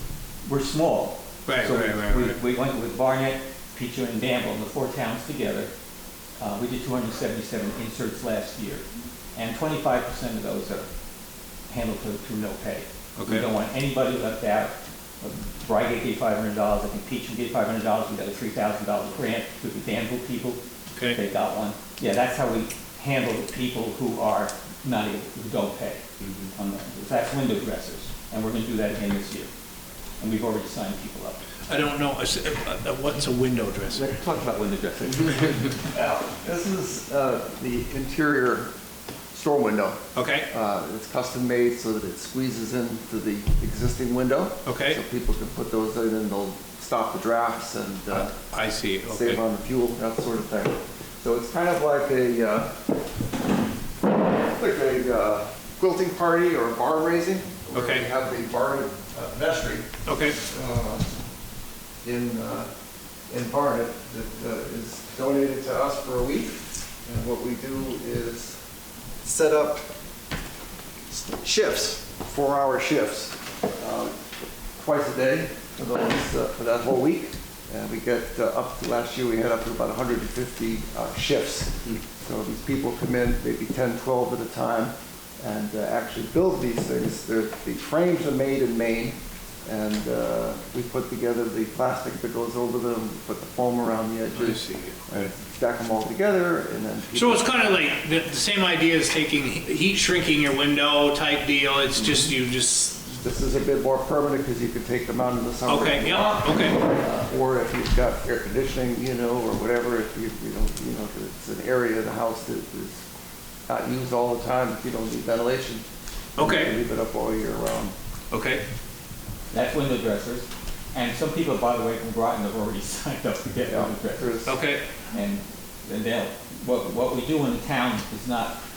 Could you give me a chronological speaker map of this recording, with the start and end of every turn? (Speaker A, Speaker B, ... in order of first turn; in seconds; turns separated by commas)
Speaker A: 0.5-5.7, Speaker B: 1.5-2.4, Speaker A: 6.4-10.9, Speaker A: 11.7-29.5, Speaker B: 13.2-13.5, Speaker A: 30.2-31.4, Speaker B: 31.7-34.1, Speaker A: 33.9-35.6, Speaker C: 35.0-38.7, Speaker C: 39.3-48.4, Speaker B: 40.1-40.5, Speaker B: 44.7-45.0, Speaker B: 48.1-49.4, Speaker C: 49.1-52.8, Speaker C: 54.4-61.1, Speaker B: 57.7-58.1, Speaker B: 60.1-60.4, Speaker C: 62.0-62.7, Speaker C: 63.3-68.6, Speaker C: 69.2-69.9, Speaker C: 71.1-74.2, Speaker C: 74.8-97.8, Speaker B: 94.3-95.0, Speaker B: 97.1-103.1, Speaker C: 102.0-102.3, Speaker C: 103.2-113.0, Speaker B: 105.7-106.9, Speaker C: 113.7-115.8, Speaker B: 116.4-116.8, Speaker C: 116.4-118.0, Speaker B: 118.3-118.6, Speaker A: 119.5-124.4, Speaker C: 123.7-124.6, Speaker B: 124.5-124.8, Speaker A: 125.1-128.6